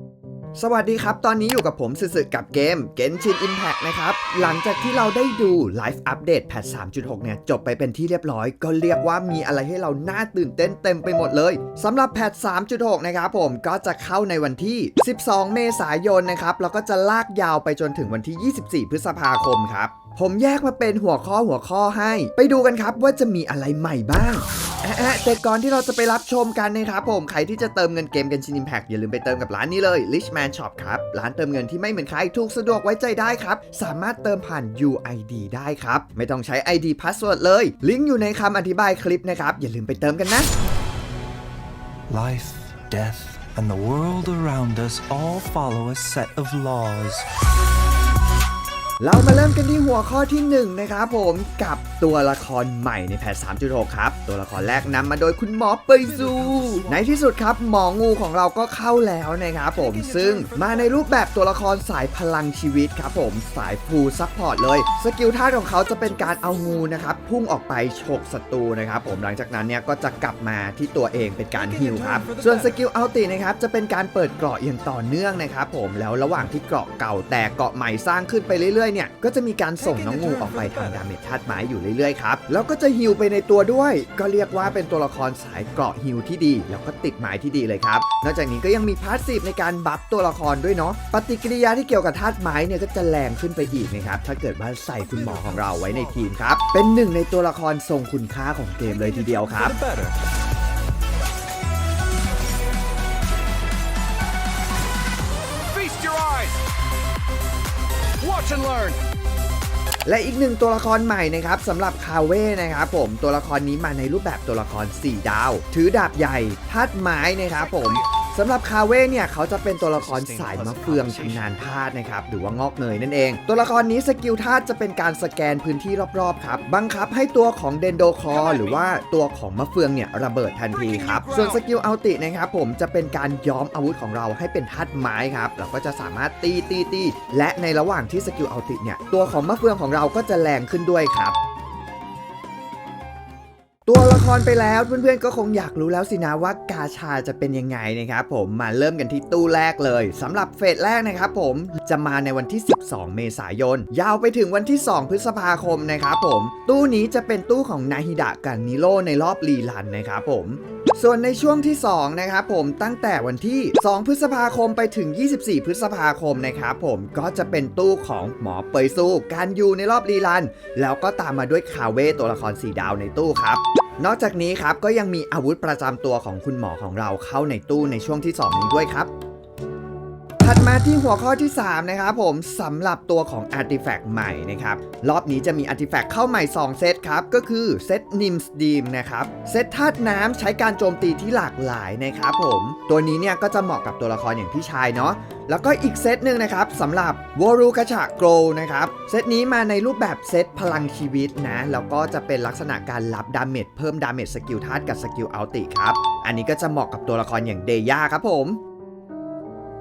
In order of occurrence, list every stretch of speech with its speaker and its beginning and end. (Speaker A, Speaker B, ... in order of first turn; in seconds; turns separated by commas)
Speaker A: 0.6-40.5, Speaker B: 42.1-47.3, Speaker A: 49.0-99.8, Speaker B: 56.1-56.9, Speaker B: 59.8-61.0, Speaker B: 71.6-72.8, Speaker B: 79.8-81.0, Speaker B: 95.0-96.3, Speaker C: 99.8-100.1, Speaker C: 105.7-106.5, Speaker C: 108.2-109.0, Speaker A: 110.1-141.4, Speaker C: 120.0-121.5, Speaker A: 143.9-179.1, Speaker A: 180.4-208.6